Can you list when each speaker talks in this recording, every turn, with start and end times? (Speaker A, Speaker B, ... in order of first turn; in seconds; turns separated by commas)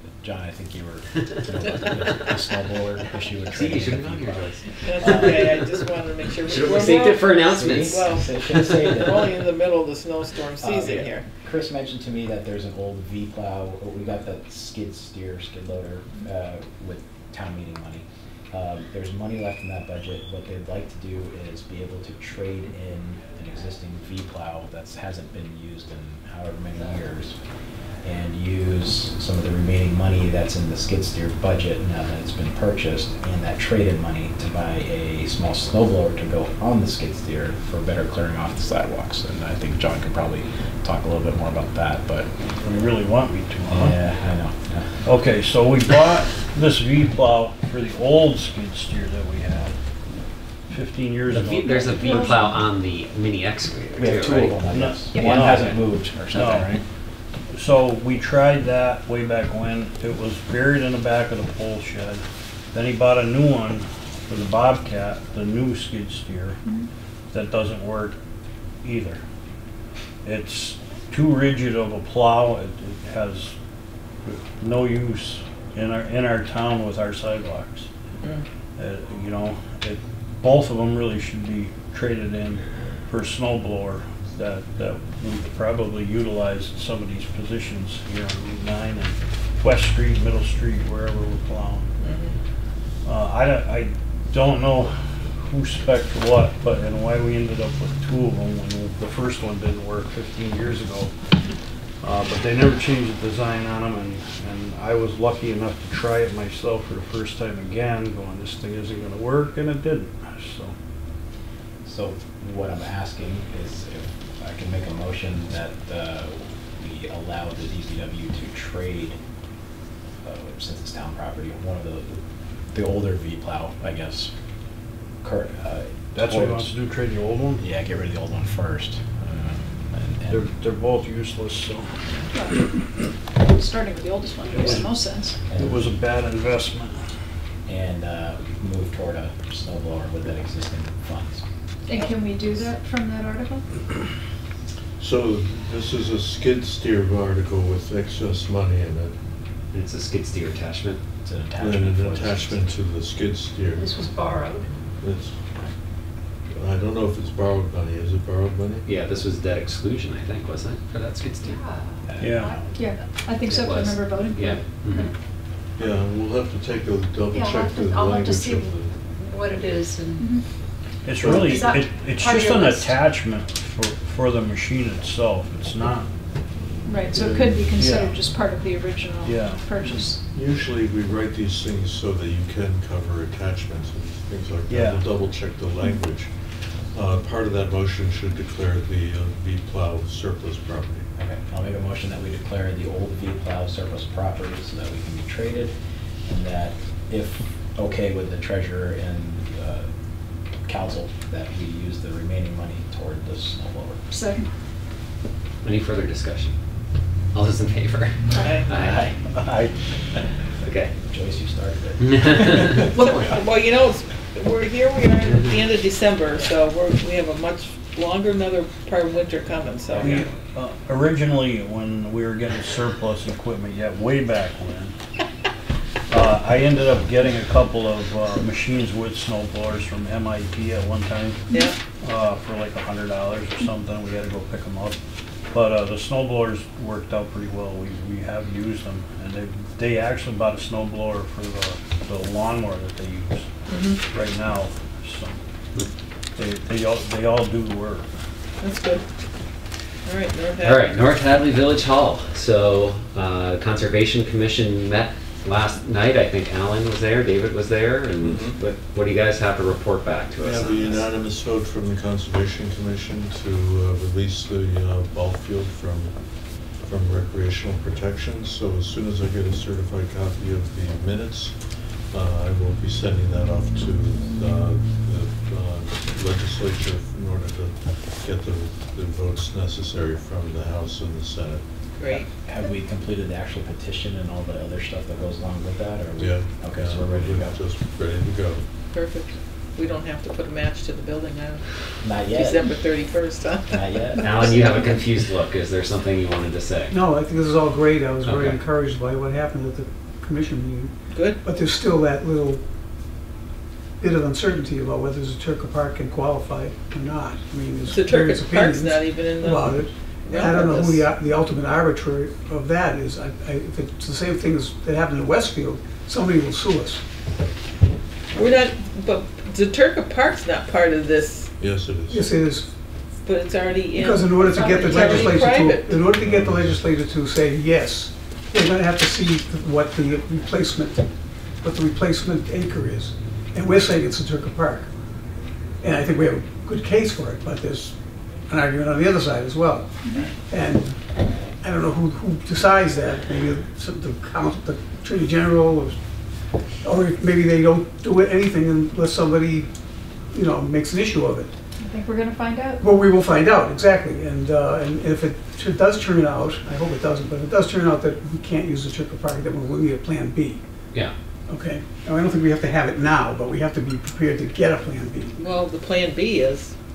Speaker A: 0.2-5.6, Speaker B: 3.5-5.6, Speaker C: 4.8-11.2, Speaker B: 6.5-9.0, Speaker A: 6.7-9.4, Speaker A: 10.6-27.4, Speaker A: 28.0-42.3, Speaker D: 42.6-44.0, Speaker A: 43.7-45.0, Speaker D: 45.0-49.8, Speaker D: 50.7-52.3, Speaker B: 51.3-55.8, Speaker E: 51.6-52.6, Speaker A: 54.0-56.8, Speaker D: 54.6-56.8, Speaker D: 57.5-66.6, Speaker D: 67.3-68.2, Speaker D: 68.8-69.2, Speaker D: 70.2-73.6, Speaker D: 74.2-77.9, Speaker D: 78.8-91.9, Speaker C: 92.0-92.4, Speaker D: 93.0-101.2, Speaker D: 102.0-110.8, Speaker A: 111.8-119.2, Speaker A: 120.2-122.2, Speaker A: 122.7-124.3, Speaker A: 125.2-126.7, Speaker D: 126.2-127.6, Speaker A: 127.6-130.5, Speaker D: 130.3-132.0, Speaker E: 132.3-132.7, Speaker E: 133.4-135.4, Speaker D: 134.5-137.0, Speaker A: 135.5-135.8, Speaker A: 137.7-141.4, Speaker E: 141.9-143.6, Speaker F: 145.0-149.1, Speaker B: 149.7-151.0, Speaker A: 151.2-152.6, Speaker F: 151.6-153.9, Speaker G: 153.8-154.7, Speaker F: 155.0-155.3, Speaker F: 156.5-158.8, Speaker B: 158.9-161.6, Speaker G: 161.4-162.9, Speaker A: 162.1-162.7, Speaker D: 162.2-162.6, Speaker E: 162.8-165.1, Speaker B: 163.5-165.1, Speaker F: 165.8-168.9, Speaker G: 167.3-170.4, Speaker E: 170.2-170.4, Speaker D: 171.1-176.1, Speaker G: 171.4-172.9, Speaker E: 176.8-180.2, Speaker D: 177.7-178.2, Speaker D: 179.2-179.6, Speaker F: 180.3-191.1, Speaker D: 184.7-185.0, Speaker A: 191.2-199.9, Speaker A: 200.6-204.0, Speaker E: 204.1-204.5, Speaker B: 205.6-206.6, Speaker B: 207.3-209.2, Speaker E: 208.4-208.6, Speaker D: 209.4-209.7, Speaker B: 210.6-210.9, Speaker A: 211.1-212.8, Speaker B: 212.0-212.8, Speaker C: 213.0-220.3, Speaker D: 219.9-224.9, Speaker D: 226.1-231.4, Speaker D: 232.0-235.0, Speaker D: 235.5-243.5, Speaker C: 243.7-244.0, Speaker D: 244.0-245.4, Speaker D: 246.3-248.1, Speaker C: 248.6-249.0, Speaker C: 250.1-250.9, Speaker B: 250.6-261.1, Speaker F: 258.2-258.6, Speaker F: 260.4-281.6, Speaker C: 282.0-282.3, Speaker A: 282.1-287.6, Speaker F: 286.2-288.6, Speaker C: 288.9-291.6, Speaker A: 292.0-292.7, Speaker C: 292.3-293.8, Speaker A: 293.7-294.5, Speaker E: 294.2-295.0, Speaker B: 294.2-296.9, Speaker H: 296.9-302.6, Speaker B: 298.2-298.6, Speaker C: 301.1-301.4, Speaker H: 304.0-317.0, Speaker C: 307.9-311.1, Speaker C: 318.3-321.5, Speaker F: 321.6-322.3, Speaker H: 322.1-322.7, Speaker C: 323.2-326.0, Speaker H: 323.9-334.9, Speaker E: 324.6-325.3, Speaker F: 326.1-326.9, Speaker H: 335.8-351.5, Speaker E: 340.0-340.3, Speaker E: 351.8-352.8, Speaker H: 352.8-360.6, Speaker H: 361.5-365.3, Speaker C: 365.4-366.7